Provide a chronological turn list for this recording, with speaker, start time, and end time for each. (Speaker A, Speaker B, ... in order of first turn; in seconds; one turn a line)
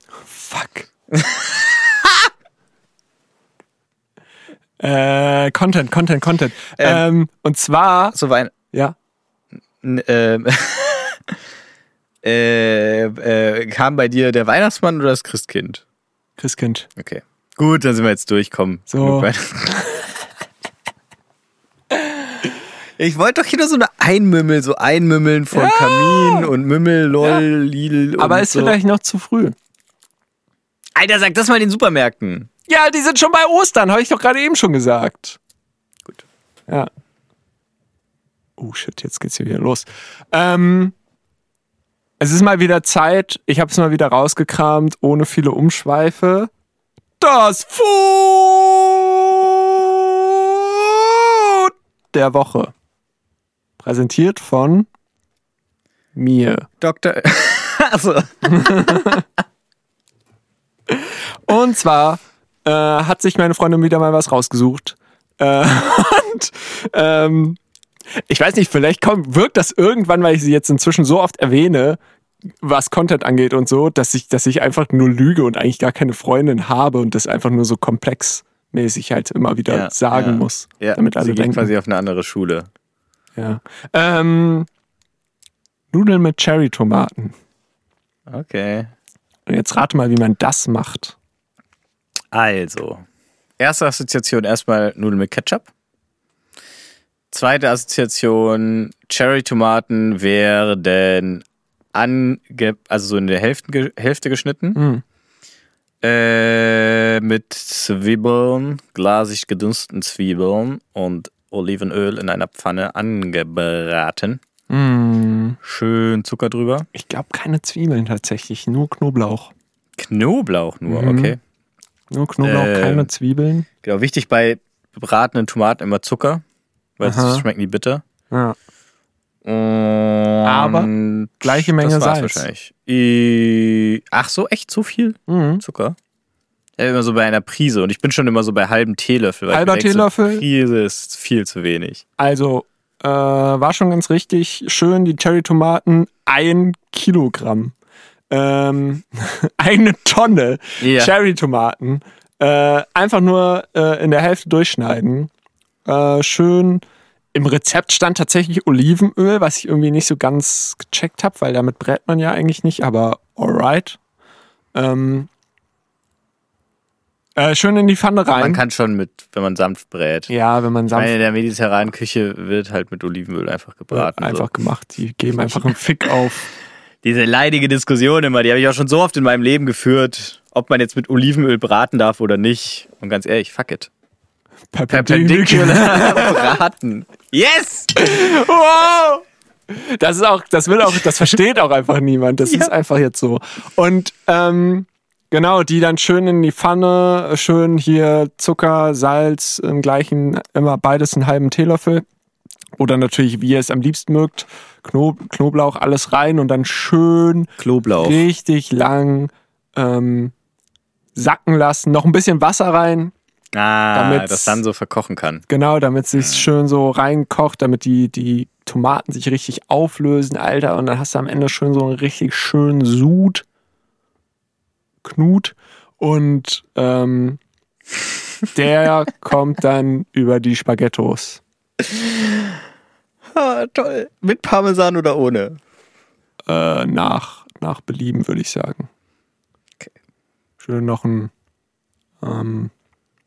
Speaker A: 0.3-0.9
Speaker B: 1.1-2.3
Speaker A: 4.8-8.2
Speaker B: 6.8-7.0
Speaker B: 8.1-8.5
Speaker B: 9.8-11.3
Speaker B: 12.2-15.8
Speaker A: 16.4-16.9
Speaker B: 17.0-19.8
Speaker A: 18.9-20.1
Speaker B: 23.0-28.8
Speaker A: 25.5-26.5
Speaker A: 28.2-29.6
Speaker B: 31.0-32.5
Speaker A: 32.7-35.4
Speaker A: 38.6-41.0
Speaker A: 42.2-46.5
Speaker A: 47.2-52.7
Speaker A: 53.8-54.9
Speaker A: 56.1-56.7
Speaker B: 56.8-59.1
Speaker A: 58.4-59.2
Speaker A: 60.9-67.6
Speaker A: 68.3-72.0
Speaker A: 72.6-81.7
Speaker B: 79.7-82.7
Speaker A: 83.4-84.7
Speaker A: 85.9-87.3
Speaker B: 88.3-88.9
Speaker A: 89.5-91.2
Speaker B: 92.3-93.0
Speaker B: 93.6-95.7
Speaker B: 97.3-104.8
Speaker A: 104.8-105.0
Speaker B: 106.0-114.4
Speaker A: 114.7-115.6
Speaker B: 115.6-116.9
Speaker A: 116.9-119.5
Speaker B: 120.0-121.4
Speaker A: 120.9-121.4
Speaker A: 122.1-123.7
Speaker B: 122.4-123.1
Speaker B: 123.8-126.4
Speaker B: 127.0-128.0
Speaker A: 127.0-127.5
Speaker A: 128.3-128.6
Speaker B: 129.4-136.0
Speaker A: 130.4-130.9
Speaker A: 131.4-132.5
Speaker A: 135.3-135.6
Speaker B: 136.8-142.0
Speaker A: 139.5-140.4
Speaker A: 142.2-147.7
Speaker A: 148.3-155.3
Speaker B: 150.8-151.1
Speaker A: 155.8-156.8
Speaker A: 157.3-164.0
Speaker A: 164.7-165.3
Speaker A: 167.4-168.6
Speaker B: 168.4-170.3
Speaker A: 170.3-171.2
Speaker B: 170.9-174.5
Speaker A: 173.9-176.5
Speaker B: 175.3-175.7
Speaker B: 177.0-183.9
Speaker A: 184.7-186.6
Speaker B: 184.9-187.9
Speaker A: 187.9-202.1
Speaker B: 192.5-192.7
Speaker A: 202.8-210.3
Speaker B: 207.6-208.3
Speaker A: 211.2-213.1
Speaker B: 213.5-215.4
Speaker A: 213.9-214.6
Speaker A: 215.5-223.4
Speaker B: 216.2-216.5
Speaker A: 225.0-227.4
Speaker A: 228.6-231.4
Speaker B: 231.8-232.5
Speaker B: 233.3-235.6
Speaker A: 236.5-238.9
Speaker A: 240.6-241.3
Speaker A: 242.2-242.7